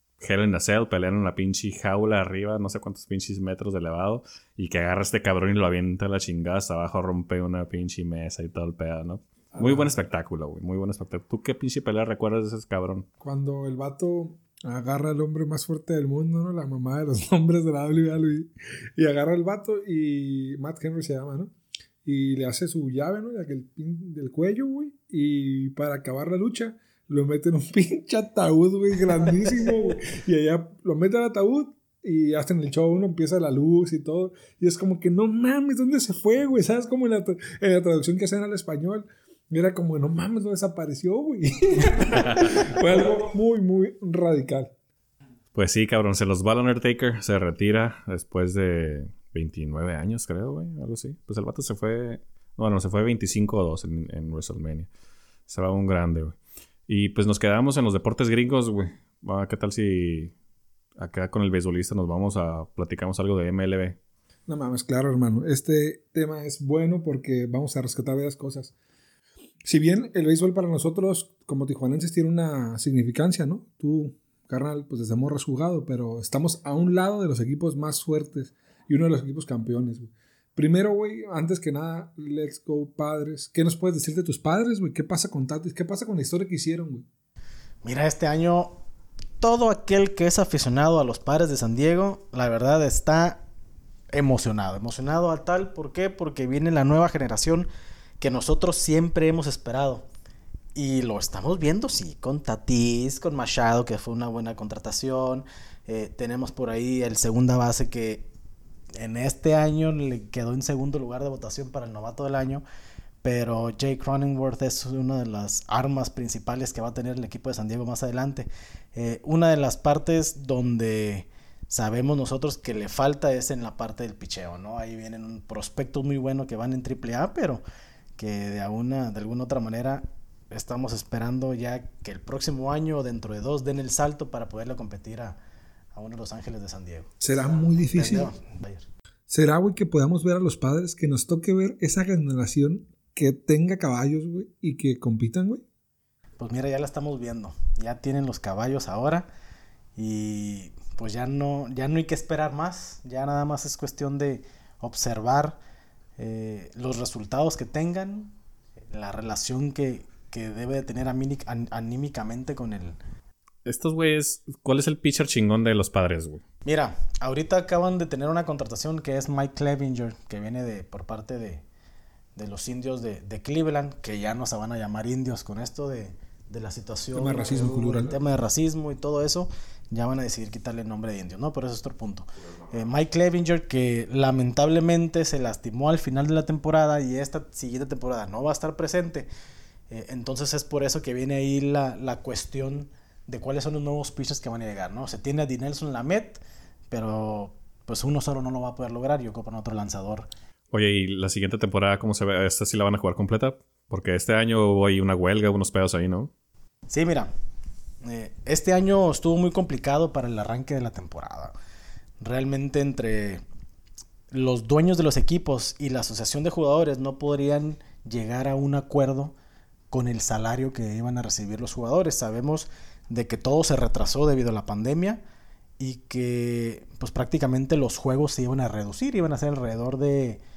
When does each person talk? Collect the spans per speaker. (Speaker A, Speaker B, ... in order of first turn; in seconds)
Speaker A: 0.2-13.1, 45.5-54.9, 55.5-56.4, 56.9-60.3, 61.0-64.0, 163.7-166.4, 200.7-206.3
Speaker B: 9.6-9.9, 13.2-21.5, 22.0-44.7, 64.5-68.7, 69.7-87.0, 137.2-138.3, 139.3-145.6, 177.1-178.2
Speaker C: 87.8-88.8, 89.4-93.5, 94.1-97.7, 98.2-100.1, 100.8-108.3, 109.0-112.6, 113.2-127.6, 128.2-135.4, 135.9-137.1, 137.9-138.9, 146.4-149.3, 150.0-155.6, 156.2-158.3, 158.9-163.0, 166.7-171.6, 172.4-189.3, 189.9-200.3, 206.9-207.3, 208.0-211.5, 212.2-213.4, 214.3-219.3, 219.9-225.2, 225.8-230.4